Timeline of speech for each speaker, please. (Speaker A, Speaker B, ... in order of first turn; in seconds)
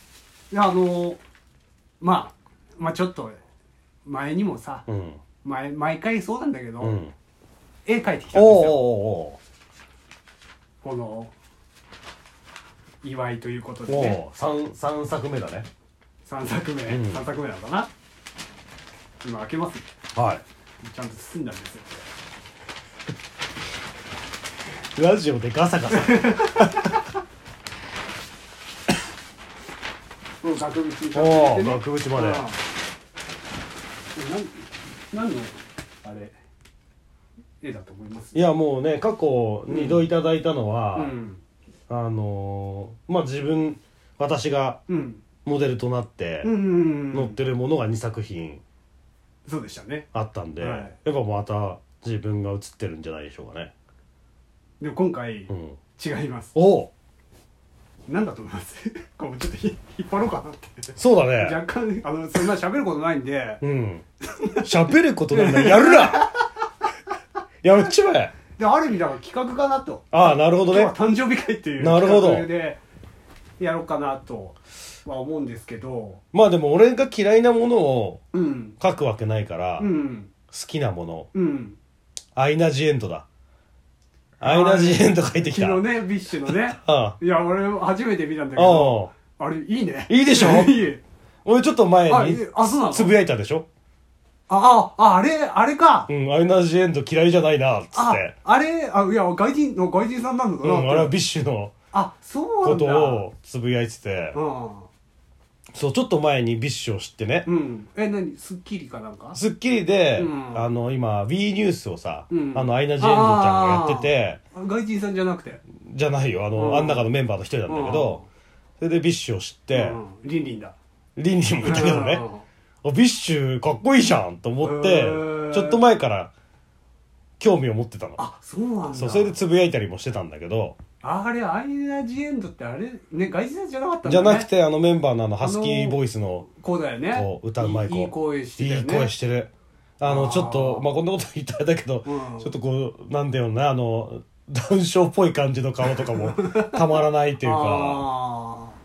Speaker A: 0.5-1.2, 2.0-3.4, 4.0-4.9, 5.4-7.0, 7.8-8.9, 10.8-11.3, 13.0-14.2, 16.2-17.9, 19.2-19.9, 20.8-21.9, 25.9-27.0, 30.4-32.6, 34.1-36.4, 37.6-38.4, 39.7-40.0, 40.9-41.4, 44.9-45.2, 46.4-47.4, 49.4-50.1, 50.6-51.0, 54.8-56.5, 58.1-63.6, 64.2-66.4, 68.5-72.8, 73.6-76.2, 78.3-78.8, 79.8-80.3, 81.3-81.8, 84.4-91.0, 92.1-93.1, 94.5-96.1, 97.9-101.1, 101.9-103.2, 104.3-104.9, 107.5-109.4, 110.2-110.7, 112.3-115.6, 116.5-117.1, 117.7-118.2, 119.7-120.8, 121.6-122.4, 124.6-125.8, 128.2-129.4, 131.0-134.5, 135.4-139.1, 140.0-140.9, 142.0-142.5, 146.0-148.8
Speaker B: 4.9-5.2, 6.8-7.1, 8.3-9.4, 13.9-15.7, 16.9-17.2, 20.1-20.4, 24.9-26.9, 31.1-32.4, 38.3-41.1, 41.9-44.8, 45.4-46.6, 47.1-48.6, 50.1-53.7, 55.5-55.8, 56.5-56.9, 61.0-61.6, 63.6-64.0, 64.6-66.3, 67.6-68.3, 70.1-70.9, 71.8-72.5, 76.3-78.2, 78.8-79.9, 80.5-81.3, 82.3-83.2, 84.4-85.8, 86.7-87.2, 88.5-89.1, 90.1-90.9, 91.4-93.7, 96.1-98.3, 100.6-101.7, 102.6-104.4, 105.7-107.5, 109.3-114.4, 115.7-118.2, 118.8-120.0, 121.2-122.2, 122.8-126.3, 127.4-128.2, 128.9-130.8, 134.1-136.4, 137.1-148.1